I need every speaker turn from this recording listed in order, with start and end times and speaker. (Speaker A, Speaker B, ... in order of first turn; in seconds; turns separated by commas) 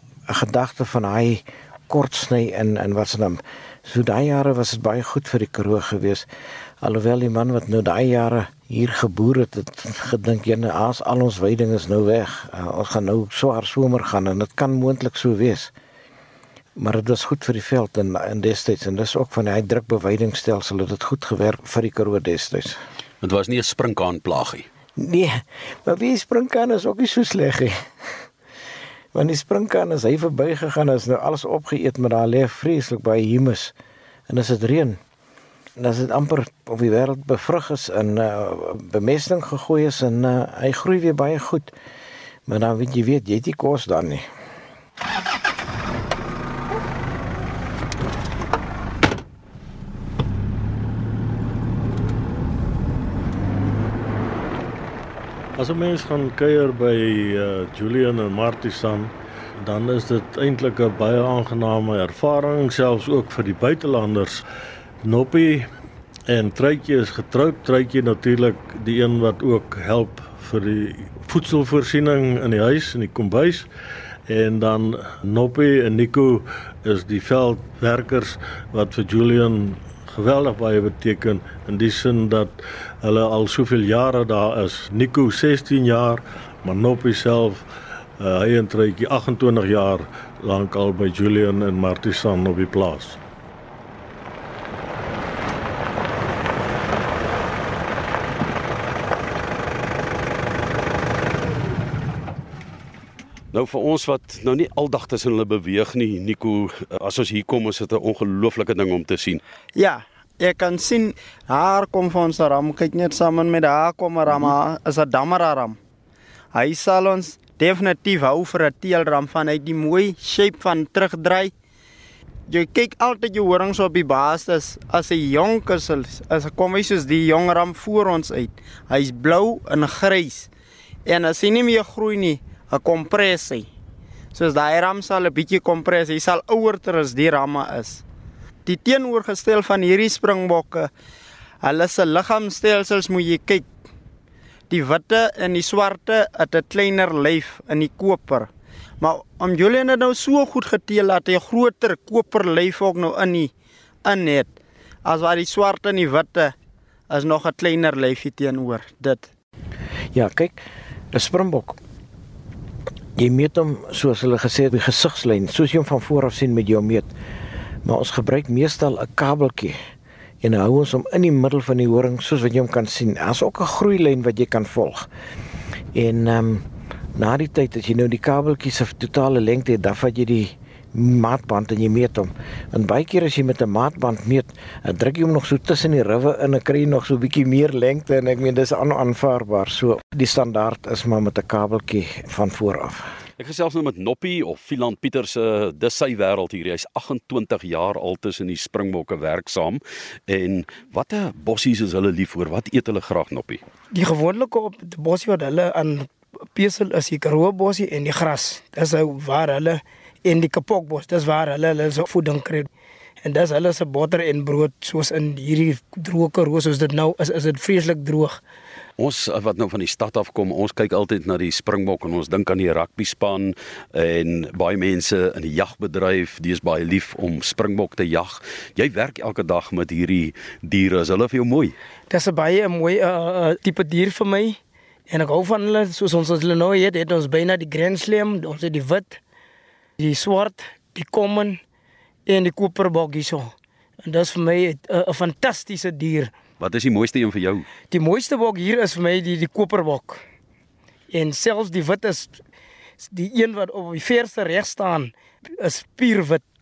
Speaker A: 0.3-6.3, Speaker A: 6.8-15.7, Speaker A: 16.8-22.8, Speaker B: 23.2-24.7, Speaker A: 25.0-27.8, Speaker A: 29.1-33.7, Speaker A: 34.3-35.0, Speaker A: 35.8-41.7, Speaker A: 42.5-44.3, Speaker C: 55.5-64.4, Speaker C: 65.0-65.7, Speaker C: 66.3-73.7, Speaker C: 74.3-87.6, Speaker C: 88.2-93.2, Speaker B: 103.5-109.4, Speaker D: 109.7-115.8, Speaker D: 116.5-121.5, Speaker D: 122.5-130.5, Speaker D: 131.0-133.7, Speaker D: 134.3-138.0, Speaker D: 138.7-140.9, Speaker D: 141.6-143.7, Speaker D: 144.7-153.5, Speaker D: 154.0-156.5, Speaker D: 157.1-159.3, Speaker A: 160.1-160.6, Speaker A: 161.1-161.8, Speaker A: 163.2-167.1, Speaker A: 167.8-169.8, Speaker A: 170.4-175.1, Speaker A: 175.9-193.1, Speaker B: 193.4-203.6, Speaker E: 203.9-212.7, Speaker E: 213.2-218.4, Speaker B: 219.0-231.7, Speaker E: 232.1-239.2, Speaker E: 240.0-241.6, Speaker E: 242.3-243.5, Speaker E: 244.0-246.3, Speaker B: 246.6-247.7, Speaker E: 247.9-250.2, Speaker E: 251.1-252.4, Speaker E: 253.0-256.4